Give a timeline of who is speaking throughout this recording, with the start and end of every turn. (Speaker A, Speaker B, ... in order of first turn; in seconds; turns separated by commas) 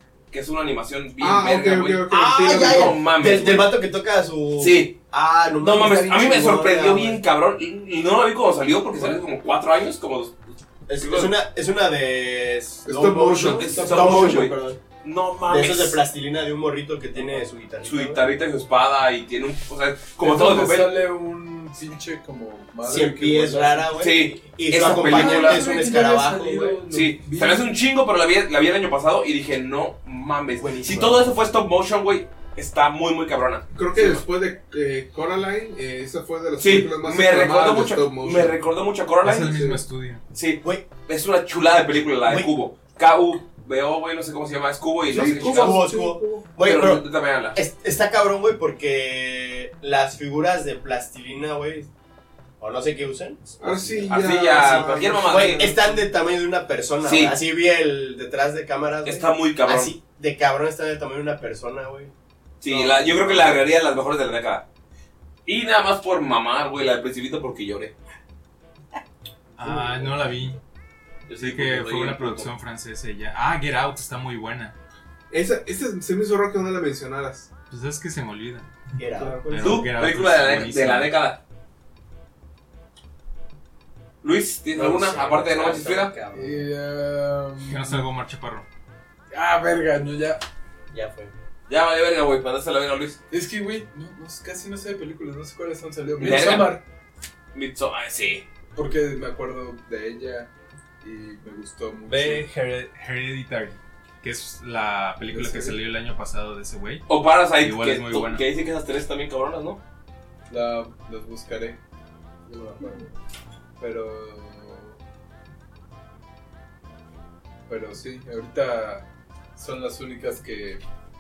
Speaker A: 0.3-3.7, Speaker B: 1.2-3.0, Speaker C: 2.1-7.2, Speaker A: 4.6-5.0, Speaker A: 5.6-10.4, Speaker C: 10.9-14.8, Speaker A: 11.0-11.3, Speaker B: 12.8-14.4, Speaker A: 13.4-16.0, Speaker C: 15.4-18.2, Speaker A: 17.8-21.0, Speaker D: 20.2-24.0, Speaker C: 22.8-26.9, Speaker A: 24.0-25.6, Speaker D: 24.7-27.7, Speaker A: 26.9-34.2, Speaker C: 30.6-31.4, Speaker B: 33.7-38.6, Speaker A: 36.6-39.5, Speaker E: 39.2-40.2, Speaker B: 39.5-39.8, Speaker A: 40.3-45.9, Speaker C: 42.2-42.5, Speaker B: 45.1-46.5, Speaker C: 45.4-51.9, Speaker A: 46.6-47.6, Speaker C: 52.6-54.1, Speaker B: 53.6-56.0, Speaker A: 54.1-55.7, Speaker C: 55.1-62.1, Speaker A: 57.0-57.4, Speaker A: 59.0-60.0, Speaker A: 62.6-64.6, Speaker C: 62.6-63.6, Speaker A: 65.5-68.0, Speaker E: 69.6-70.6, Speaker C: 69.6-70.6, Speaker A: 71.3-72.5, Speaker E: 71.4-74.8, Speaker B: 75.3-77.5, Speaker E: 77.7-81.1, Speaker C: 79.0-79.9, Speaker B: 79.2-79.6, Speaker A: 79.6-81.4, Speaker A: 84.2-86.1, Speaker C: 84.7-86.7, Speaker D: 86.3-88.1, Speaker E: 87.7-88.7, Speaker D: 89.3-90.4, Speaker C: 90.9-91.3, Speaker A: 91.7-93.2, Speaker D: 93.3-96.8, Speaker A: 96.2-96.8, Speaker A: 97.5-98.5, Speaker D: 98.7-100.5, Speaker D: 101.0-102.5, Speaker E: 102.1-108.5, Speaker D: 105.3-105.8, Speaker A: 107.1-109.8, Speaker D: 110.5-111.8, Speaker C: 112.5-113.1, Speaker D: 113.8-115.0, Speaker D: 117.7-120.8